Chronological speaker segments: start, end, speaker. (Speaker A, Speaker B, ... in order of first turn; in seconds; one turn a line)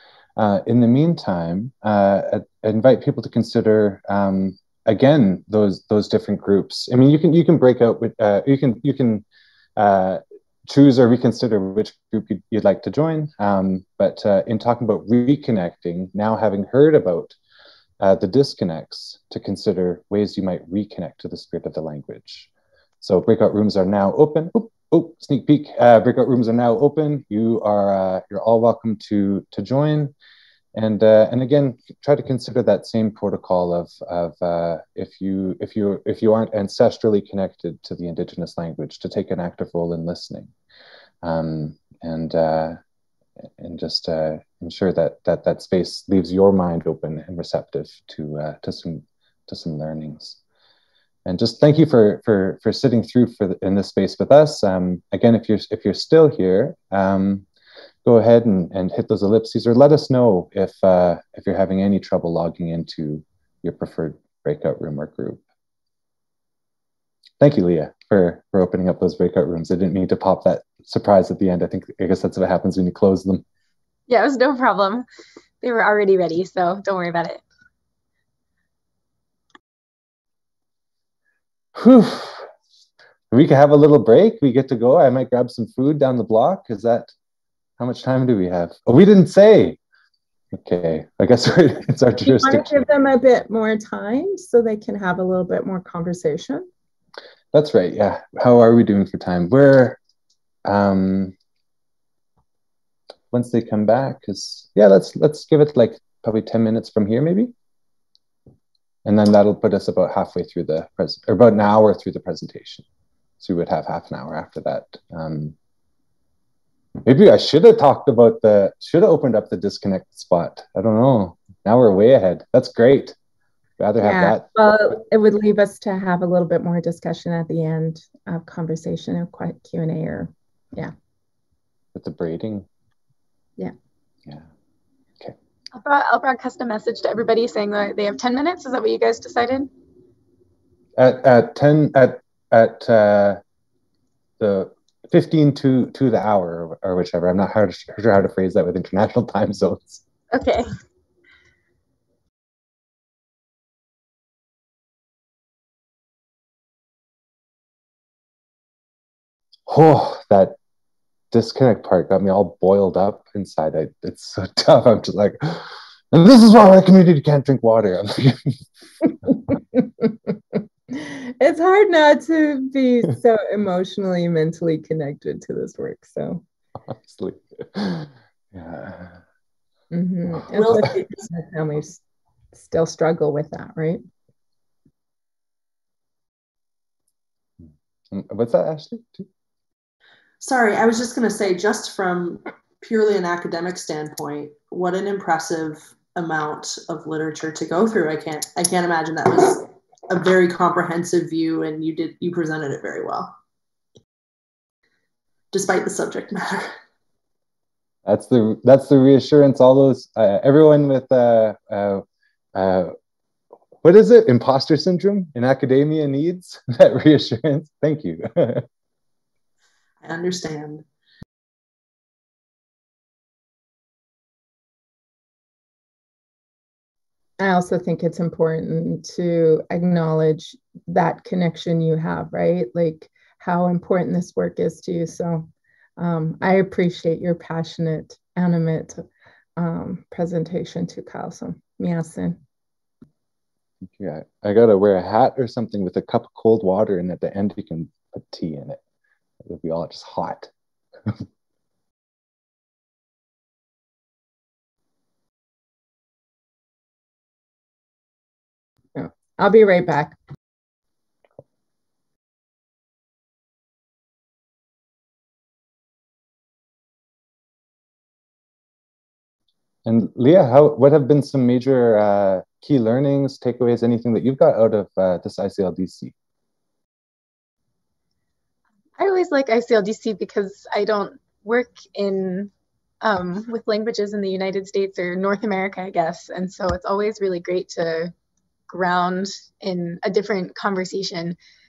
Speaker A: 0.4-9.2
Speaker A: 9.8-17.4
Speaker A: 18.0-22.5
Speaker A: 23.0-30.1
Speaker A: 30.8-40.5
Speaker A: 41.2-42.8
Speaker A: 43.6-50.4
Speaker A: 51.2-57.5
Speaker A: 58.0-65.4
Speaker A: 67.4-73.4
Speaker B: 74.1-75.0
Speaker B: 75.6-77.4
Speaker A: 81.8-82.5
Speaker A: 83.3-87.1
Speaker A: 87.8-89.8
Speaker A: 90.5-92.8
Speaker C: 92.2-96.7
Speaker A: 97.5-100.0
Speaker A: 100.7-101.3
Speaker A: 103.3-107.5
Speaker A: 109.0-112.8
Speaker A: 113.4-115.5
Speaker A: 117.0-123.2
Speaker A: 123.8-124.5
Speaker C: 124.0-130.9
Speaker A: 131.9-132.7
Speaker B: 135.7-139.7
Speaker A: 141.0-143.4
Speaker A: 144.4-150.0
Speaker B: 150.3-150.7
Speaker A: 159.7-160.6
Speaker A: 161.3-168.7
Speaker C: 169.8-170.1
Speaker C: 170.9-176.4
Speaker A: 176.9-179.2
Speaker C: 179.9-182.0
Speaker D: 180.5-181.3
Speaker C: 182.5-184.0
Speaker A: 187.6-189.3
Speaker D: 190.4-203.3
Speaker D: 205.5-206.7
Speaker A: 208.1-212.9
Speaker A: 213.8-218.7
Speaker D: 220.0-220.8
Speaker C: 227.4-239.0
Speaker C: 239.6-242.4
Speaker A: 243.8-248.8
Speaker A: 249.4-250.5
Speaker C: 259.0-260.2
Speaker A: 269.9-276.1
Speaker B: 279.0-282.5
Speaker B: 283.0-288.1
Speaker B: 288.7-291.4